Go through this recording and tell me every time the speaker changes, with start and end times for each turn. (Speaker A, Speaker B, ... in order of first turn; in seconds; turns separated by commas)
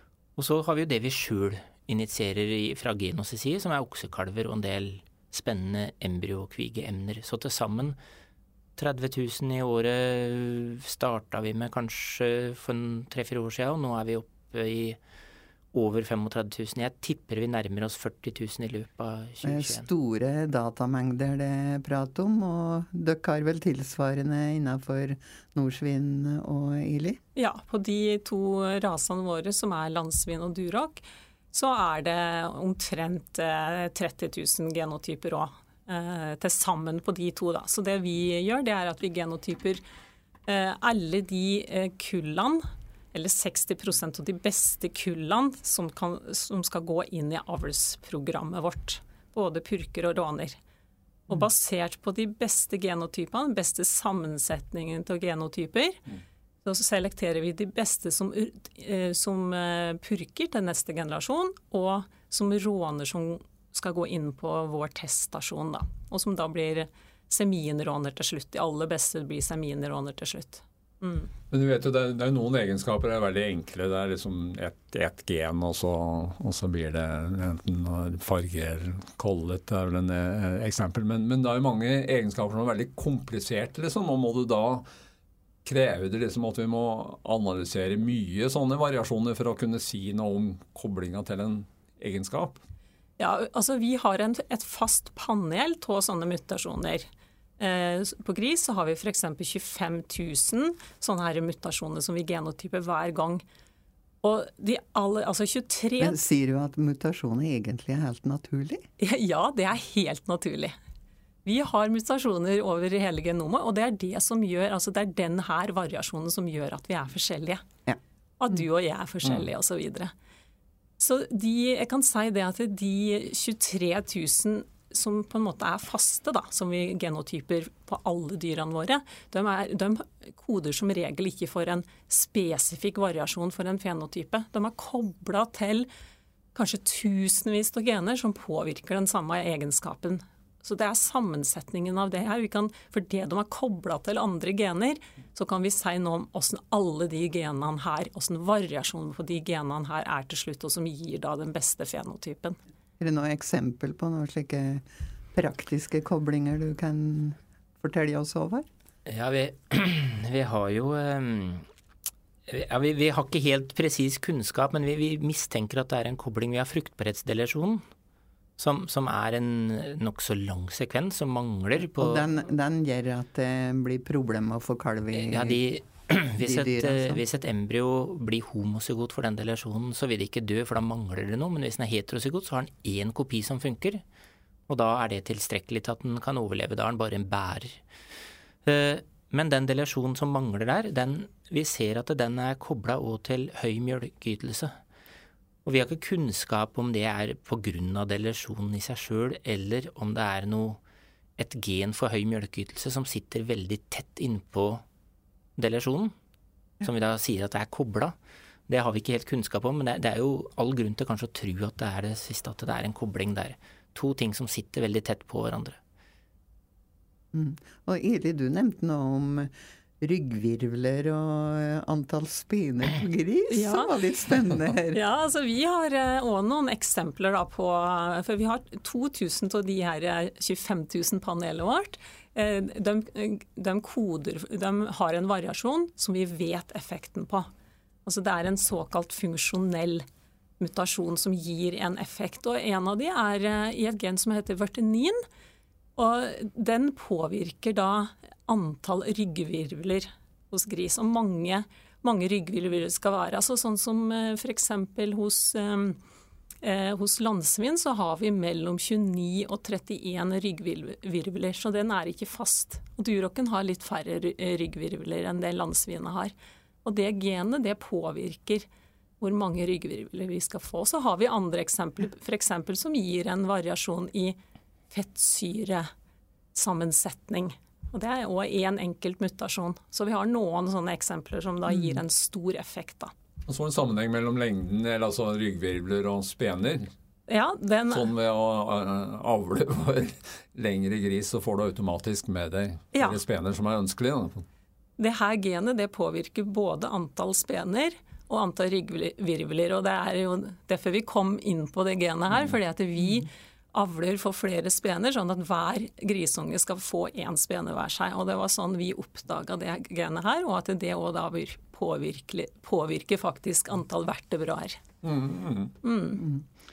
Speaker A: 0.3-8.0, Speaker A: 8.8-15.0, Speaker A: 15.7-19.9, Speaker B: 19.4-27.2, Speaker C: 27.3-39.8, Speaker C: 40.5-50.6, Speaker C: 51.3-56.0, Speaker C: 56.6-71.3, Speaker D: 71.5-84.8, Speaker D: 85.6-92.6, Speaker C: 93.2-97.1, Speaker C: 97.6-103.4, Speaker C: 104.2-106.2, Speaker B: 106.0-108.8, Speaker C: 109.0-110.7, Speaker C: 111.4-117.6, Speaker C: 118.4-120.1, Speaker C: 121.0-135.9, Speaker C: 136.5-152.6, Speaker B: 153.0-158.7, Speaker A: 159.1-161.7, Speaker A: 162.5-167.8, Speaker A: 168.6-172.3, Speaker B: 171.8-175.6, Speaker A: 175.2-184.0, Speaker B: 176.4-177.2, Speaker A: 184.7-187.8, Speaker A: 188.6-194.7, Speaker A: 195.6-200.8, Speaker A: 201.4-204.8, Speaker A: 205.6-206.1, Speaker A: 206.8-208.2, Speaker A: 208.7-215.8, Speaker B: 217.3-225.0, Speaker C: 223.5-223.9, Speaker C: 224.9-237.5, Speaker C: 238.1-240.0, Speaker C: 240.6-245.2, Speaker C: 245.9-256.0, Speaker C: 256.6-266.3, Speaker C: 266.8-268.7, Speaker C: 269.2-274.4, Speaker C: 274.9-275.9, Speaker C: 276.5-283.1, Speaker B: 281.7-282.0, Speaker D: 283.5-286.9, Speaker C: 287.3-288.1, Speaker D: 287.9-294.4, Speaker C: 292.9-293.2, Speaker C: 295.0-314.8, Speaker D: 315.0-315.7, Speaker C: 315.8-316.2, Speaker B: 316.2-316.5